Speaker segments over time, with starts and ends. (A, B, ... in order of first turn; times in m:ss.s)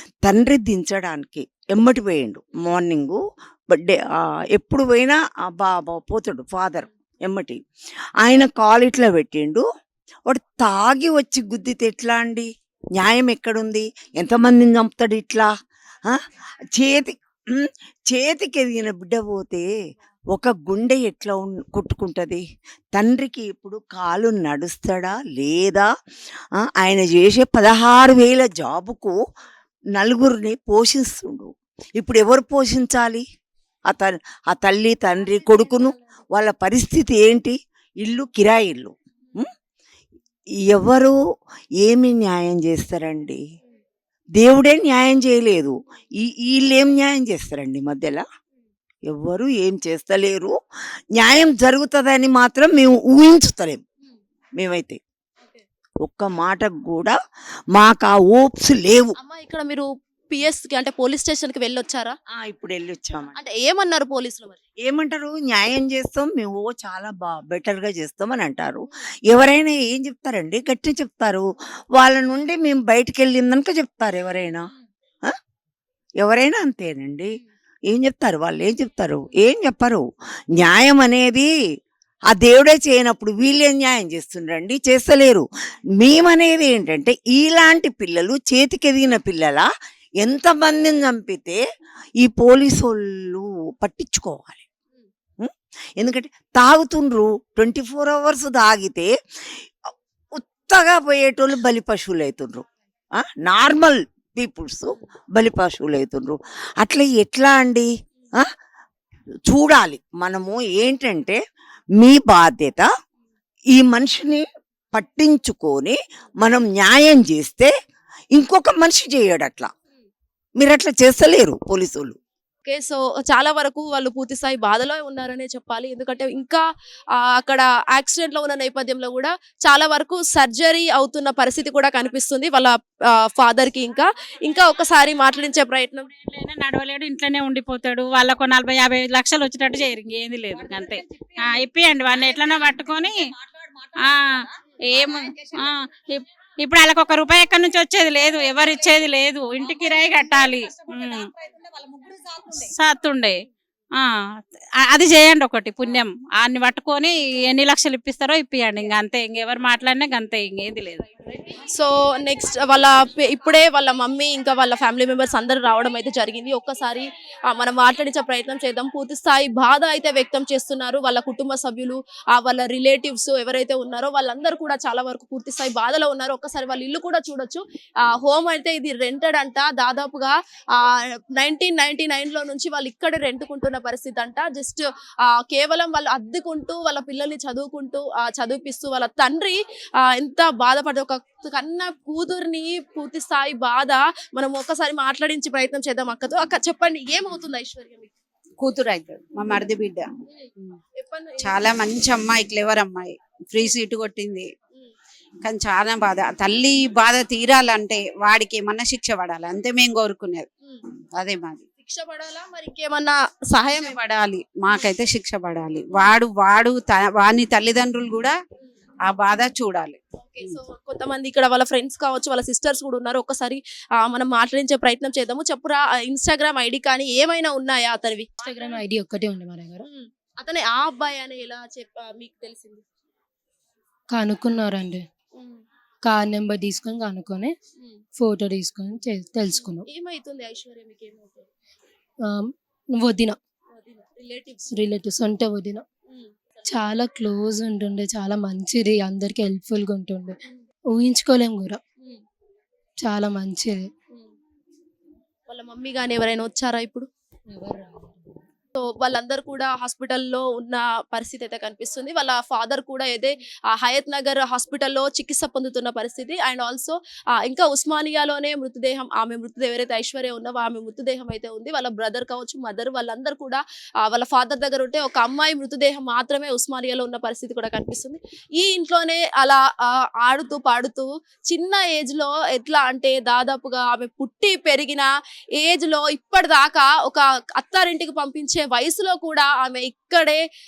0:00.3-0:07.6 A
0:08.2-0:09.6 A
0:10.3-0:15.5 A
0:16.8-0:19.7 A
0:20.4-0:22.4 A
0:23.0-0:25.9 A
0:26.8-0:29.1 A
0:30.0-0:33.2 A
0:33.9-0:39.5 A
0:40.7-0:41.2 A
0:41.8-0:43.4 A
0:44.4-0:48.2 A
0:49.1-0:50.6 A
0:51.2-0:53.8 A
0:54.6-0:55.0 A
0:56.0-0:57.2 A
0:57.8-0:59.2 A
0:59.2-1:02.2 B
1:02.3-1:03.4 A
1:03.4-1:04.6 B
1:04.8-1:14.7 A
1:16.2-1:17.3 A
1:17.9-1:20.0 A
1:20.6-1:21.5 A
1:22.3-1:25.5 A
1:26.0-1:29.7 A
1:30.2-1:31.6 A
1:32.2-1:34.6 A
1:35.4-1:39.1 A
1:40.4-1:42.6 A
1:43.2-1:48.4 A
1:49.5-1:51.4 A
1:52.0-1:52.9 A
1:53.8-1:54.4 A
1:55.0-1:57.7 A
1:58.3-1:59.7 A
2:00.6-2:02.2 A
2:02.6-2:06.6 B
2:07.2-2:16.1 B
2:16.3-2:23.2 C
2:24.0-2:31.3 C
2:32.5-2:33.4 C
2:34.0-2:41.0 C
2:41.7-3:00.8 B
3:01.4-3:04.8 B
3:05.4-3:18.1 B
3:18.6-3:20.1 D
3:21.0-3:21.7 B
3:21.4-3:24.5 D
3:25.4-3:30.5 D
3:31.2-3:31.6 D
3:31.8-3:34.0 B
3:33.6-3:38.4 D
3:39.1-3:40.6 D
3:40.2-3:48.8 B
3:48.4-3:49.8 E
3:49.8-3:52.8 B
3:54.1-3:55.0 E
3:56.0-3:57.6 E
3:58.2-3:59.8 E
3:59.7-4:01.5 B
4:03.0-4:03.4 E
4:03.8-4:04.7 B
4:04.7-4:05.8 E
4:06.1-4:06.9 B
4:06.7-4:10.4 E
4:10.9-4:11.8 E
4:13.0-4:13.9 E
4:15.5-4:17.1 B
4:17.5-4:18.3 E
4:18.8-4:39.6 B
4:40.2-4:45.1 B
4:45.6-4:50.4 B